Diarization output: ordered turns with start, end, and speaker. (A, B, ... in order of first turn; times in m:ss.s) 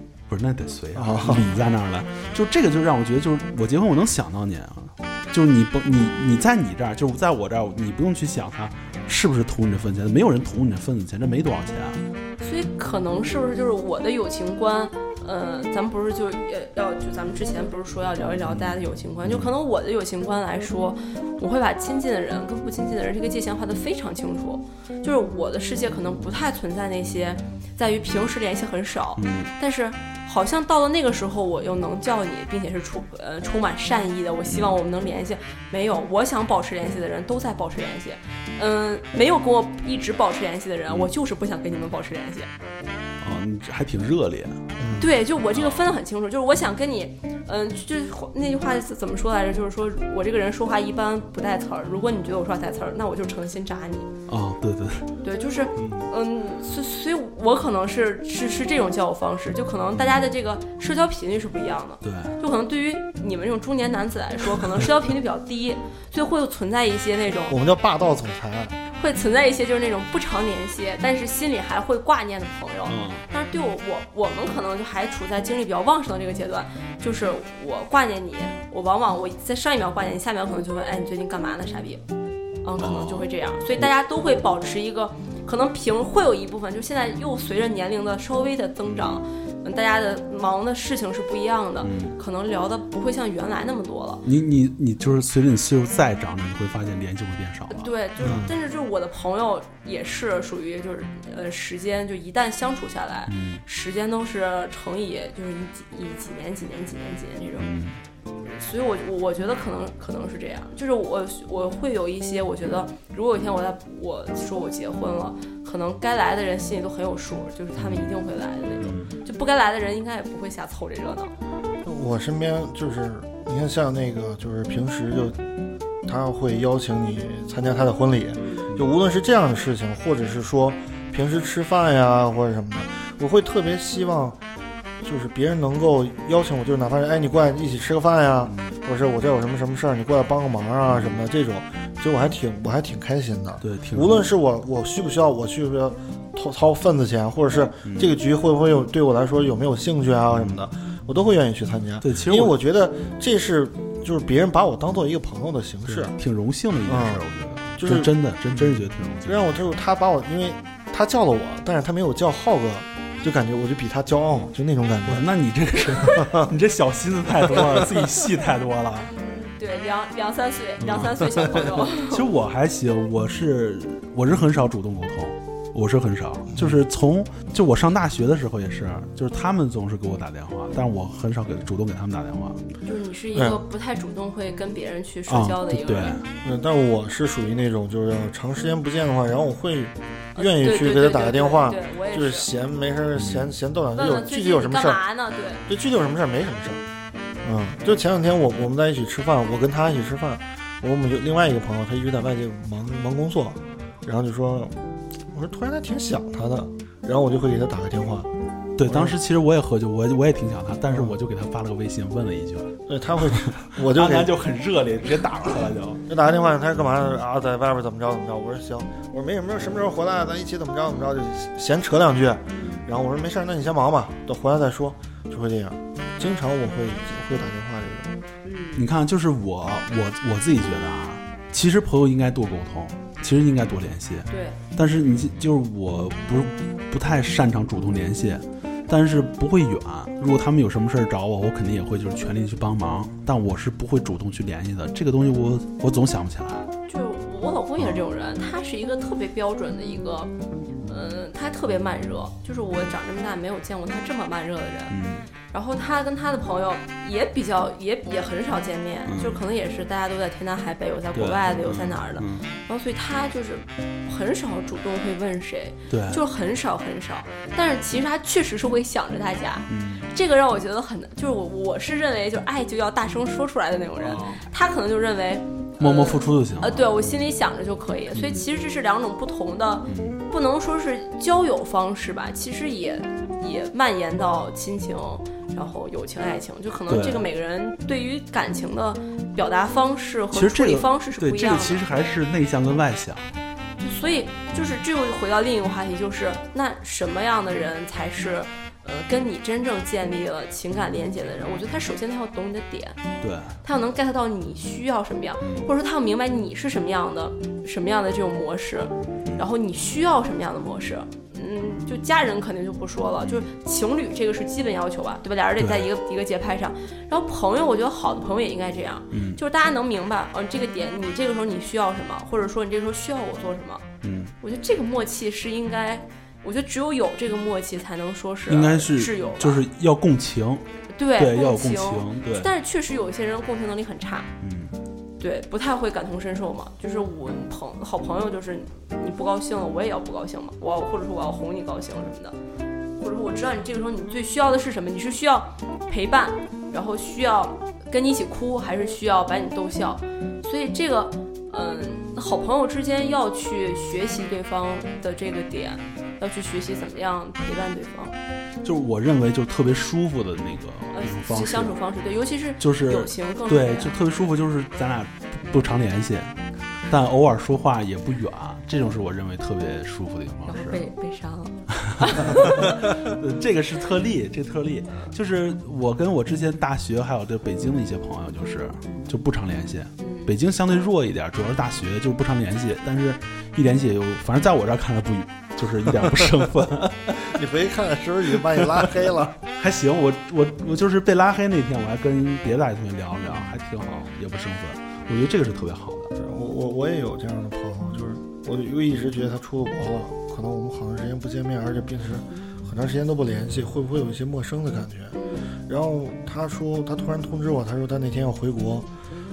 0:00.3-0:12.0 A
0:00.9-0:01.5 B
0:12.4-0:42.5 C
0:19.2-0:19.5 A
0:29.2-0:29.5 A
0:34.5-0:34.8 A
0:43.2-0:44.6 A
0:44.8-0:45.1 B
0:45.0-0:54.1 C
0:45.5-0:45.9 A
0:54.3-0:55.1 A
0:55.2-1:07.6 C
0:55.8-0:56.1 A
1:02.0-1:02.4 A
1:07.5-1:08.8 B
1:09.0-1:22.0 C
1:12.9-1:13.3 A
1:22.6-1:34.2 C
1:22.8-1:23.3 A
1:28.8-1:29.2 A
1:31.8-1:32.2 A
1:34.2-1:38.4 A
1:37.7-1:47.7 C
1:38.2-1:38.6 B
1:43.3-1:43.6 A
1:47.6-1:48.0 A
1:48.4-2:01.3 C
1:57.8-1:58.1 A
1:58.8-1:59.1 A
2:01.8-2:05.4 B
2:06.0-2:14.4 B
2:08.4-2:08.7 C
2:15.0-2:36.1 B
2:18.5-2:18.7 A
2:20.9-2:21.2 A
2:23.6-2:24.3 A
2:27.8-2:28.2 A
2:30.3-2:30.6 A
2:32.0-2:32.6 A
2:35.9-2:39.6 A
2:36.9-2:37.2 B
2:37.8-2:45.3 B
2:45.1-2:49.1 A
2:46.0-2:46.5 B
2:47.5-2:47.8 B
2:49.1-2:52.2 C
2:50.8-2:51.4 A
2:52.0-3:02.6 A
3:02.9-3:06.2 C
3:03.3-3:03.6 B
3:05.3-3:06.2 A
3:06.4-3:15.0 B
3:10.4-3:12.5 C
3:13.2-3:13.5 A
3:14.0-3:15.6 C
3:15.7-3:16.8 B
3:17.4-3:24.8 B
3:25.3-3:28.3 B
3:28.8-3:36.0 A
3:28.8-3:29.2 B
3:30.9-3:31.2 B
3:32.9-3:34.3 B
3:36.1-3:48.1 B
3:42.5-3:42.8 C
3:48.4-3:48.8 C
3:48.8-4:06.7 A
3:54.3-3:54.6 C
4:06.9-4:10.3 C
4:07.8-4:08.0 A
4:10.9-4:15.0 C
4:14.9-4:15.3 A
4:15.5-4:51.8 C
4:19.1-4:19.4 A
4:21.1-4:22.4 A
4:25.9-4:26.2 A
4:29.7-4:30.1 A
4:34.0-4:34.4 A
4:35.8-4:36.9 A
4:38.1-4:38.4 A
4:39.9-4:40.2 A
4:46.9-4:47.2 A
4:50.3-4:53.3 A
4:53.8-5:03.0 C
5:03.2-5:03.6 A
5:03.6-5:23.8 C
5:05.4-5:05.7 A
5:13.2-5:13.5 A
5:15.6-5:15.9 A
5:19.1-5:19.4 A
5:24.0-5:24.3 A
5:24.4-5:29.6 C
5:28.5-5:30.6 A
5:30.9-5:34.3 C
5:31.2-5:32.5 A
5:34.4-5:34.7 A
5:35.2-5:42.4 C
5:43.0-5:58.2 C
5:58.6-6:01.8 A
6:00.9-6:04.0 C
6:02.6-6:06.3 A
6:06.9-6:10.8 A
6:10.5-6:12.8 C
6:11.8-6:27.4 A
6:20.0-6:20.3 C
6:27.2-6:29.4 B
6:28.6-6:28.9 A
6:29.6-6:36.1 A
6:36.2-6:48.9 B
6:45.1-6:45.5 C